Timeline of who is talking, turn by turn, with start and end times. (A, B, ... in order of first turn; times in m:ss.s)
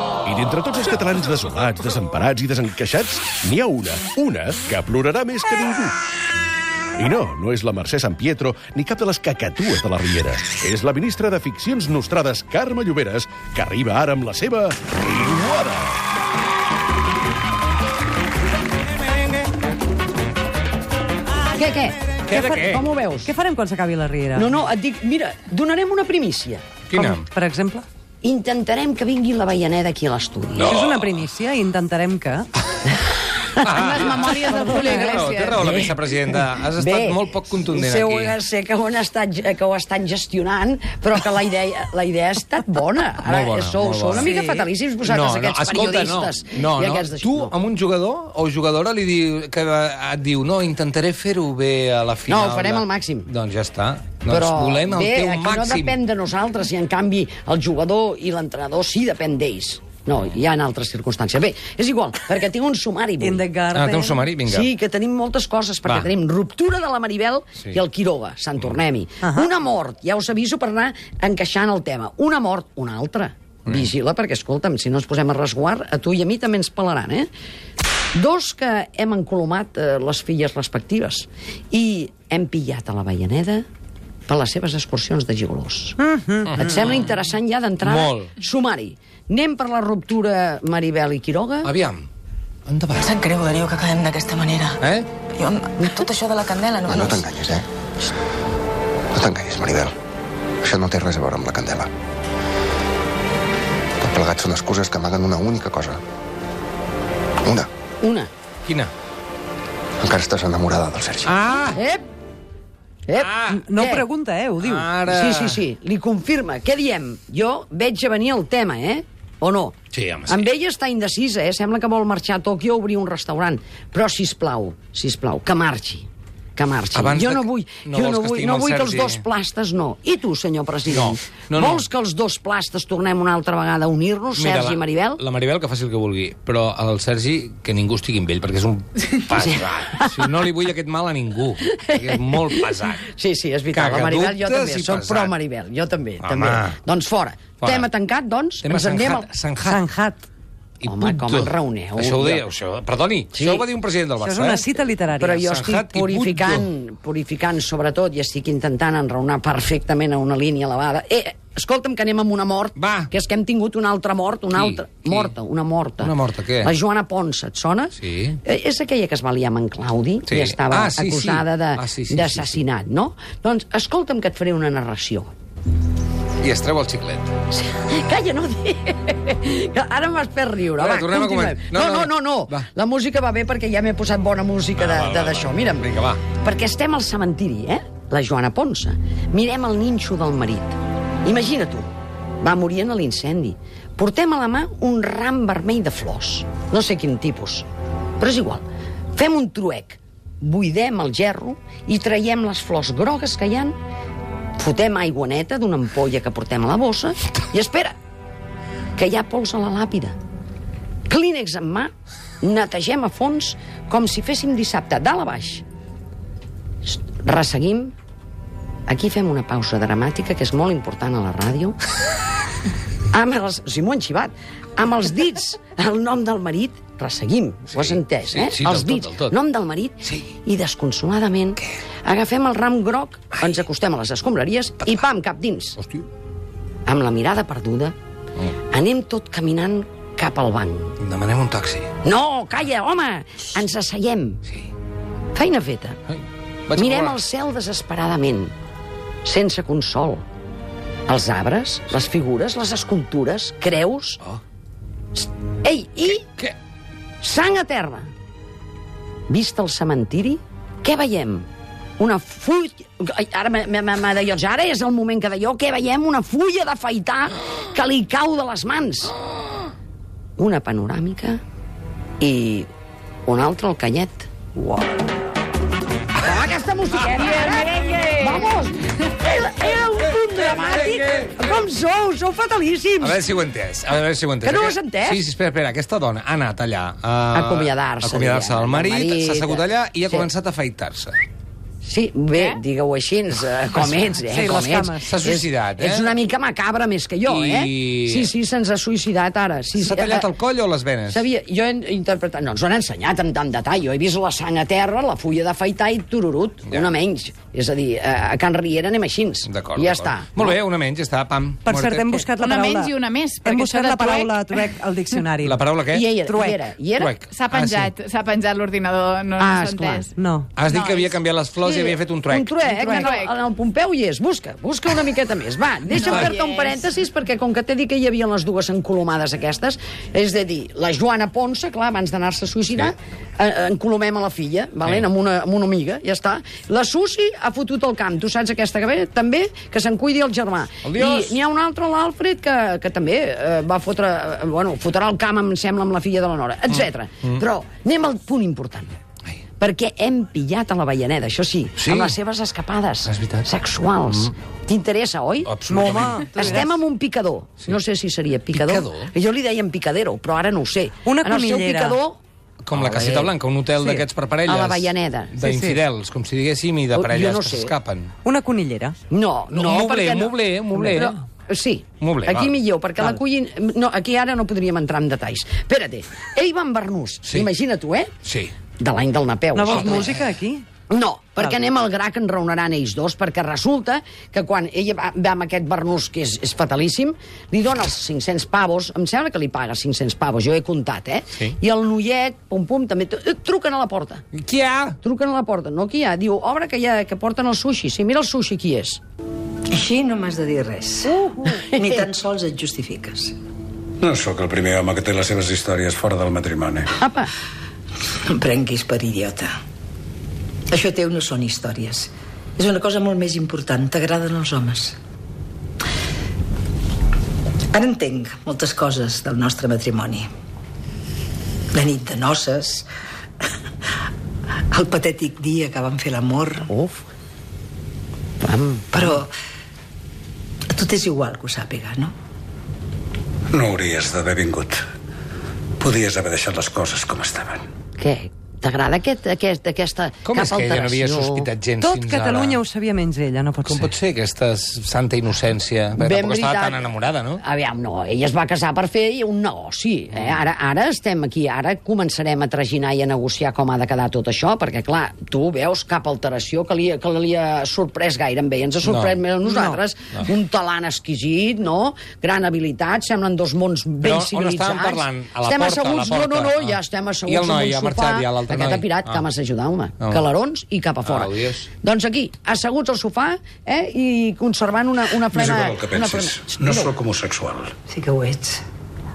0:00.2-0:06.0 A
0:07.0-0:16.0 A
0:21.5-0:23.3 B
0:22.3-0:22.8 C
0:23.2-0:24.5 D
0:24.3-0:26.6 B
0:26.9-0:27.2 C
0:26.9-0:27.8 D
0:28.2-0:30.8 B
0:30.6-0:31.2 C
0:30.6-0:32.5 D
0:33.0-0:35.9 B
0:33.6-0:38.3 C
0:34.2-0:35.2 D
0:36.6-0:47.5 B
0:43.2-0:55.9 C
0:52.3-0:53.3 B
0:54.3-1:03.4 B
1:03.2-1:04.2 D
1:03.7-1:04.7 C
1:04.5-1:17.3 B
1:09.2-1:09.5 D
1:18.1-1:23.6 B
1:24.3-1:26.0 B
1:26.0-1:26.5 D
1:26.4-1:27.1 C
1:26.5-1:31.7 B
1:27.8-1:28.3 C
1:31.6-1:32.1 C
1:32.7-1:33.1 C
1:33.0-1:34.8 E
1:34.8-1:35.1 C
1:35.3-1:37.2 E
1:36.8-1:37.6 F
1:39.1-1:39.9 F
1:40.6-1:41.9 F
1:44.0-1:46.0 F
1:47.4-1:47.7 F
1:48.0-1:48.3 B
1:48.6-1:48.9 C
1:50.0-1:51.3 F
1:51.2-1:51.8 C
1:51.7-1:52.0 B
1:53.1-1:54.0 B
1:53.2-1:53.6 C
1:53.6-1:54.9 D
1:54.6-1:55.6 C
1:55.1-1:59.7 B
1:59.9-2:00.4 C
2:00.3-2:15.2 B
2:06.9-2:09.2 C
2:10.9-2:11.8 C
2:14.3-2:23.0 C
2:19.4-2:20.2 B
2:21.7-2:29.3 B
2:23.7-2:25.3 C
2:26.2-2:26.8 C
2:27.6-2:27.9 C
2:28.6-2:29.8 C
2:29.6-2:30.3 D
2:30.8-2:34.8 C
2:30.8-2:32.4 B
2:33.3-2:33.6 B
2:34.2-2:35.5 D
2:35.2-2:55.3 B
2:35.4-2:36.7 C
2:42.8-2:43.1 C
2:44.5-2:45.3 C
2:46.0-2:46.7 C
2:48.0-2:48.4 C
2:50.3-2:52.6 C
2:56.4-2:57.3 C
2:57.5-3:11.9 B
3:00.8-3:02.7 C
3:04.8-3:06.2 C
3:12.4-3:17.6 B
3:18.2-3:23.8 B
3:24.6-3:28.0 B
3:29.0-3:30.1 B
3:31.1-3:35.6 B
3:36.8-3:37.9 B
3:38.9-3:41.8 B
3:43.1-3:55.8 B
3:47.7-3:49.3 C
3:56.8-3:57.9 B
3:58.7-4:00.9 B
4:01.0-4:01.9 C
4:02.0-4:04.4 B
4:05.3-4:06.0 B
4:06.7-4:07.2 C
4:06.7-4:08.5 B
4:09.2-4:10.2 B
4:11.1-4:14.2 B
4:15.1-4:16.2 B
4:16.2-4:16.5 C
4:17.2-4:18.1 B
4:19.3-4:21.4 B
4:22.0-4:29.1 B
4:30.4-4:31.4 B
4:32.2-4:32.7 B
4:33.2-4:35.0 B
4:36.2-4:43.2 B
4:37.2-4:38.4 C
4:40.5-4:41.4 C
4:43.0-4:51.2 C
4:44.4-4:45.2 B
4:47.3-4:50.3 B
4:51.8-5:00.3 B
4:53.8-4:55.1 D
4:55.0-4:56.1 C
4:57.2-4:58.3 C
4:59.8-5:01.2 C
5:01.1-5:10.6 B
5:09.4-5:12.3 C
5:11.6-5:15.6 D
5:12.4-5:14.4 G
5:15.4-5:16.1 C
5:15.9-5:17.1 B
5:16.2-5:16.6 D
5:17.0-5:17.9 C
5:17.3-5:20.1 G
5:19.4-5:20.1 B
5:20.1-5:20.6 D
5:20.6-5:22.6 C
5:20.7-5:21.2 G
5:21.6-5:48.9 B
5:22.8-5:23.3 G
5:26.0-5:26.3 C
5:26.4-5:26.7 G
5:40.8-5:41.4 C
5:46.7-5:47.4 C
5:49.6-6:02.2 B
5:51.8-5:52.1 C
5:53.1-5:53.5 C
5:55.4-5:56.6 C
5:55.7-5:56.6 D
5:58.5-5:59.1 C
6:01.0-6:02.0 D
6:02.6-6:08.1 C
6:02.8-6:03.3 B
6:04.4-6:05.4 B
6:05.4-6:05.8 D
6:06.9-6:07.7 B
6:08.2-6:09.0 D
6:09.1-6:18.1 B
6:09.5-6:11.1 C
6:12.0-6:12.5 C
6:18.2-6:18.5 C
6:18.8-6:20.1 B
6:19.5-6:20.6 D
6:19.7-6:20.1 C
6:20.9-6:34.2 B
6:34.4-6:35.0 C
6:35.0-6:39.0 B
6:39.7-6:43.3 H
6:41.6-6:42.0 B
6:44.0-6:46.9 I
6:47.0-6:47.3 B
6:48.3-6:49.5 H
6:50.7-6:55.0 H
6:57.7-7:00.3 H
7:01.7-7:02.9 H
7:04.7-7:06.7 H
7:06.7-7:07.0 B
7:08.4-7:09.1 B
7:08.9-7:09.3 H
7:10.7-7:12.1 H
7:13.5-7:14.8 I
7:15.8-7:17.6 I
7:18.0-7:21.5 B
7:20.2-7:22.6 C
7:21.8-7:23.9 D
7:23.6-7:27.4 C
7:26.0-7:26.8 B
7:27.4-7:56.9 B
7:38.8-7:39.2 C
7:39.4-7:39.8 D
7:44.0-7:49.2 C
7:51.0-7:51.6 C
7:55.3-7:57.7 I
7:57.9-7:58.6 H